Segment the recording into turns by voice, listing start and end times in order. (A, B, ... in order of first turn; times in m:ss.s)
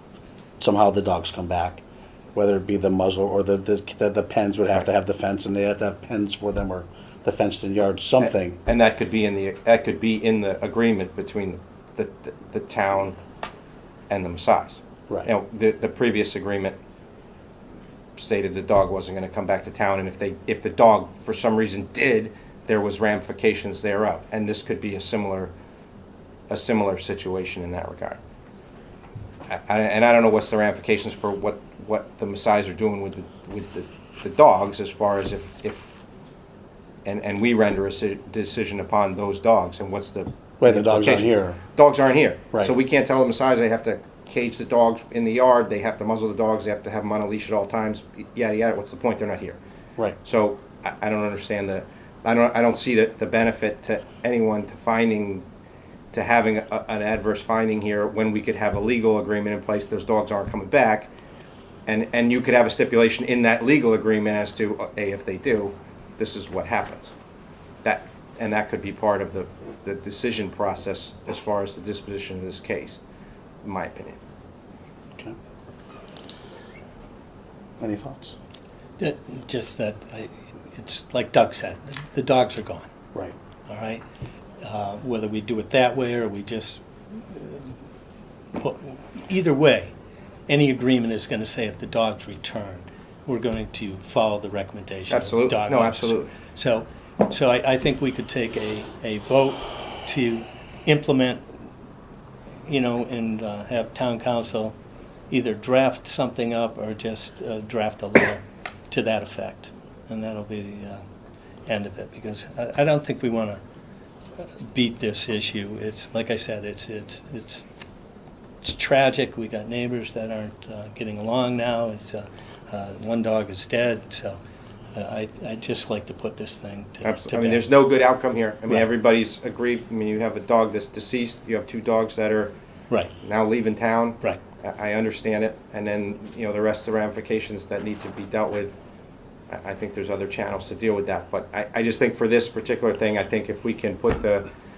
0:00.6-0:01.8 A
0:02.3-0:08.6 A
0:08.2-0:13.2 B
0:14.1-0:16.8 B
0:18.2-0:25.5 B
0:26.5-0:28.2 B
0:29.5-0:35.9 B
0:37.0-0:49.6 B
0:40.6-0:41.6 A
0:50.2-0:55.4 B
0:56.1-1:01.1 B
1:01.9-1:07.1 B
1:07.8-1:13.0 B
1:13.6-1:14.2 B
1:17.8-1:18.4 A
1:19.0-1:22.9 C
1:23.7-1:24.0 C
1:24.6-1:27.7 C
1:28.6-1:29.9 C
1:30.5-1:41.4 C
1:35.1-1:36.3 B
1:42.6-1:44.8 C
1:45.3-1:51.0 C
1:51.6-1:53.6 C
1:54.4-1:57.6 C
1:58.6-2:04.4 C
2:04.9-2:07.7 C
2:07.0-2:12.5 B
2:13.2-2:18.7 B
2:19.5-2:24.5 B